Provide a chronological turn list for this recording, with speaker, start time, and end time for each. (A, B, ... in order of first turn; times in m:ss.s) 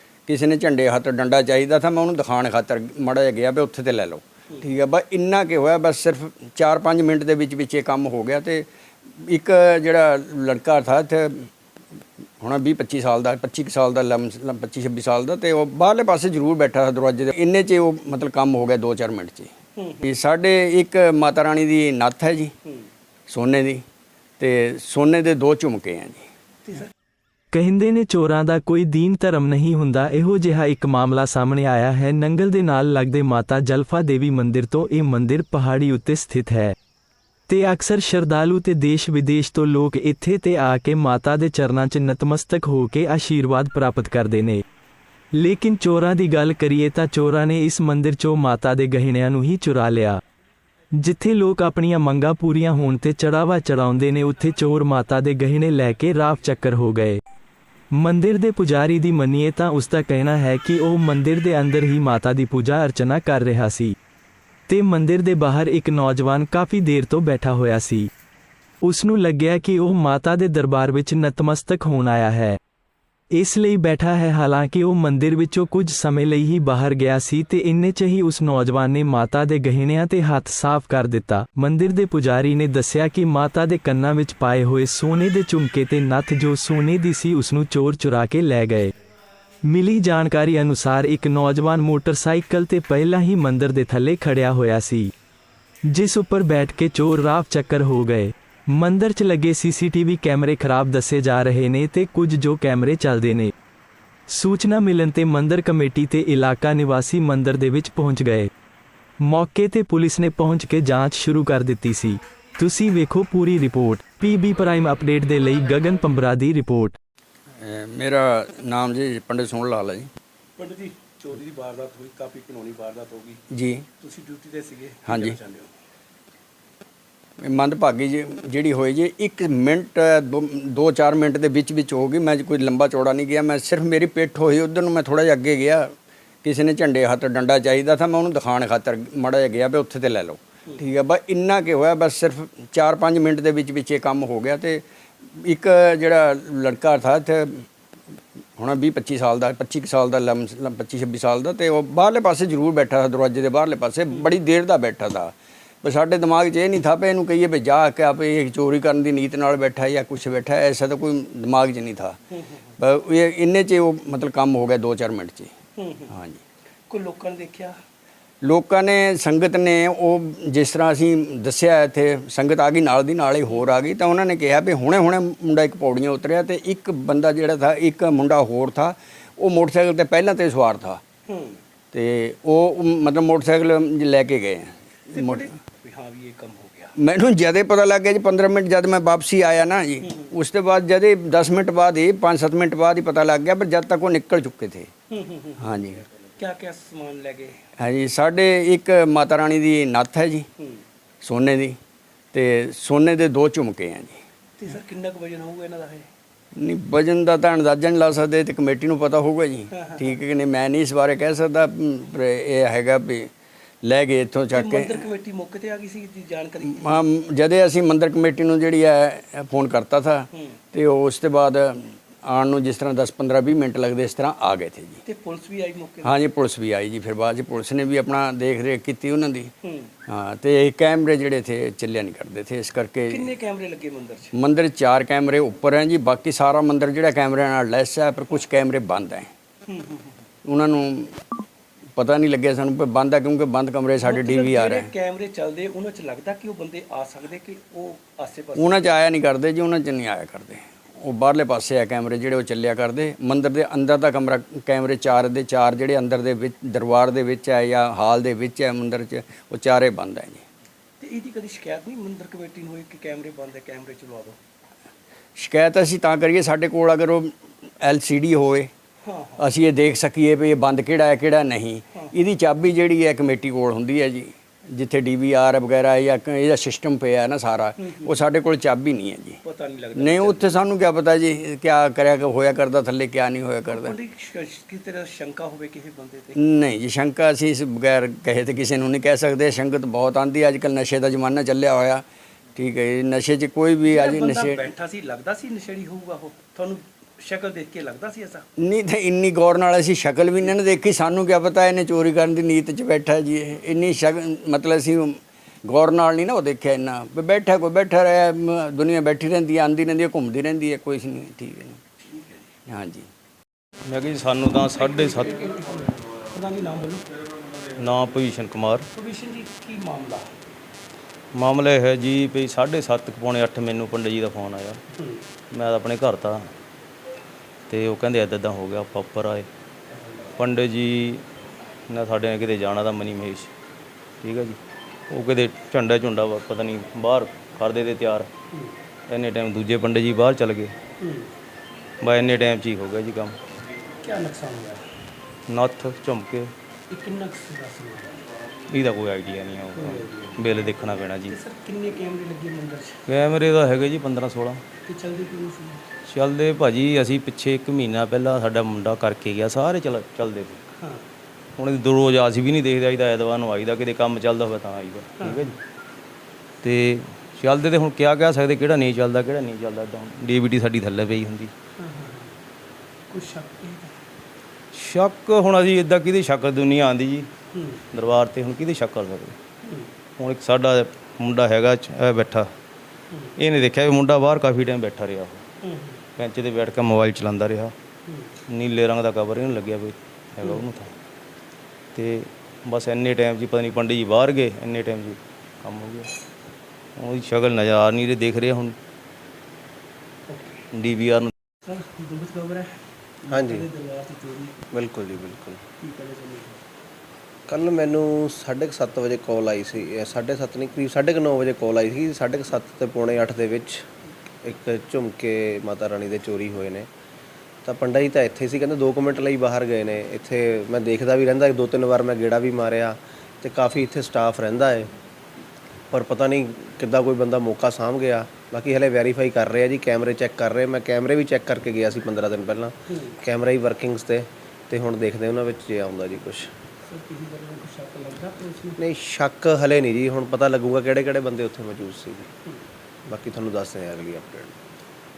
0:00.3-0:11.5 A
0:12.4-0:22.5 A
0:19.8-0:20.0 B
0:23.3-0:23.8 A
0:24.4-0:26.3 A
0:26.7-0:26.9 B
0:27.5-0:36.8 C
0:37.5-0:44.6 C
0:45.3-0:50.2 C
0:51.0-0:57.2 C
0:57.9-1:04.0 C
1:04.7-1:08.1 C
1:08.8-1:12.6 C
1:13.3-1:28.9 C
1:29.6-1:35.1 C
1:35.9-1:43.5 C
1:44.3-1:48.5 C
1:49.2-1:57.0 C
1:57.6-2:00.1 A
2:00.6-2:03.4 B
2:03.5-2:03.9 A
2:04.0-2:05.7 B
2:05.1-2:05.4 A
2:07.4-2:15.9 A
2:16.4-2:27.7 A
2:28.6-2:42.2 A
2:42.8-2:45.5 A
2:45.8-2:46.1 B
2:46.1-2:46.4 A
2:46.9-2:47.8 B
2:48.4-3:01.0 A
3:01.3-3:01.6 B
3:01.9-3:05.5 A
3:05.1-3:06.9 B
3:07.0-3:14.9 A
3:15.1-3:15.7 B
3:15.6-3:16.0 A
3:16.4-3:17.6 B
3:17.8-3:20.5 A
3:21.2-3:21.8 A
3:22.3-3:24.2 A
3:24.6-3:26.1 B
3:26.6-3:33.3 A
3:33.8-3:35.0 A
3:34.5-3:37.0 B
3:36.7-3:45.0 A
3:45.1-3:46.2 B
3:46.0-3:49.5 A
3:49.6-3:49.9 B
3:50.1-3:53.3 A
3:53.1-3:54.3 B
3:54.3-3:59.3 A
3:59.7-4:00.2 B
4:00.4-4:01.2 A
4:02.0-4:04.9 A
4:04.0-4:08.8 B
4:08.6-4:20.4 A
4:21.0-4:24.4 B
4:25.4-4:28.7 A
4:29.0-4:29.5 B
4:29.4-4:39.4 A
4:37.9-4:38.2 B
4:39.4-4:40.5 B
4:40.0-4:44.0 A
4:43.7-4:46.4 B
4:46.4-4:52.0 A
4:52.6-4:54.6 A
4:53.9-4:58.4 B
4:58.6-5:11.8 A
5:12.1-5:12.4 B
5:12.7-5:13.1 A
5:13.9-5:15.4 D
5:14.6-5:17.1 B
5:17.8-5:18.8 D
5:18.9-5:20.3 B
5:21.4-5:24.8 D
5:25.0-5:25.2 B
5:25.5-5:26.5 D
5:27.7-5:29.5 D
5:30.4-5:31.2 D
5:31.9-5:33.5 D
5:34.2-5:34.6 D
5:35.1-5:38.3 D
5:39.1-5:40.8 D
5:41.0-5:41.3 B
5:42.0-5:43.4 D
5:44.0-5:44.8 B
5:45.5-5:46.5 D
5:46.9-5:48.2 B
5:48.7-5:51.4 D
5:49.8-5:50.6 B
5:51.3-5:53.1 B
5:53.1-5:54.6 D
5:54.8-5:55.8 B
5:56.1-6:00.6 D
6:01.6-6:05.6 D
6:05.2-6:05.5 B
6:06.6-6:11.5 D
6:11.8-6:12.4 B
6:13.1-6:13.9 B
6:14.7-6:17.3 D
6:17.5-6:17.8 B
6:17.9-6:19.4 D
6:19.6-6:19.9 B
6:20.2-6:22.5 D
6:23.4-6:25.4 D
6:25.6-6:26.0 B
6:26.2-6:27.7 D
6:28.1-6:28.4 B
6:28.5-6:30.9 D
6:32.0-6:36.1 D
6:37.0-6:38.8 D
6:40.3-6:40.6 B
6:40.7-6:41.3 D
6:41.7-6:42.7 B
6:43.2-6:44.7 B
6:43.3-6:43.7 E
6:44.7-6:45.6 E
6:45.8-6:46.6 B
6:47.5-6:53.8 E
6:54.4-6:56.9 E
6:57.6-7:04.9 E
7:05.9-7:16.5 E
7:16.9-7:18.8 B
7:18.8-7:22.3 E
7:23.1-7:24.5 E